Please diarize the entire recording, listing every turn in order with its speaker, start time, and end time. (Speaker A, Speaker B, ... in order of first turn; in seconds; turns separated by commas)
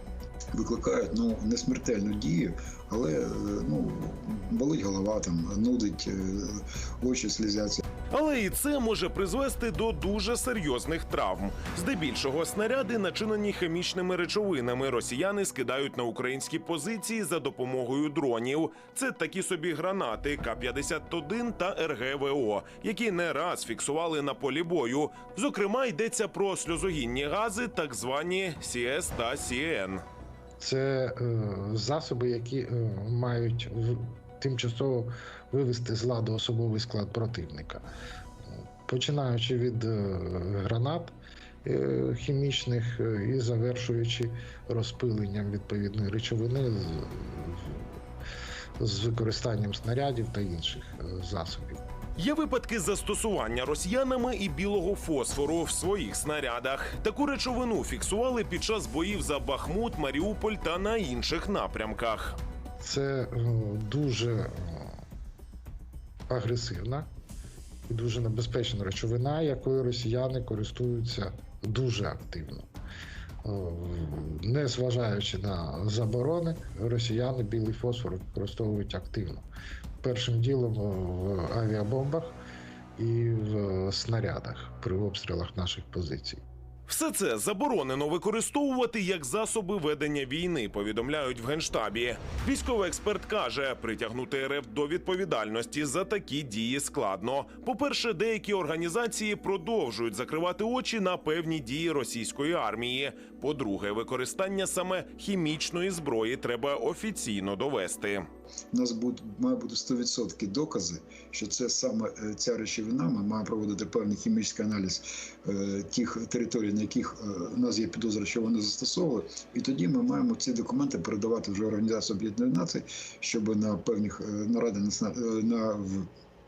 Speaker A: 0.5-7.8, Speaker B: 8.1-30.0, Speaker C: 30.6-37.9, Speaker C: 38.9-47.9, Speaker C: 48.8-51.8, Speaker B: 52.2-62.4, Speaker C: 62.8-65.0, Speaker C: 66.3-67.1, Speaker C: 67.9-72.7, Speaker C: 73.4-79.5, Speaker C: 80.0-82.4, Speaker C: 83.0-86.4, Speaker B: 86.9-108.3, Speaker A: 108.7-126.1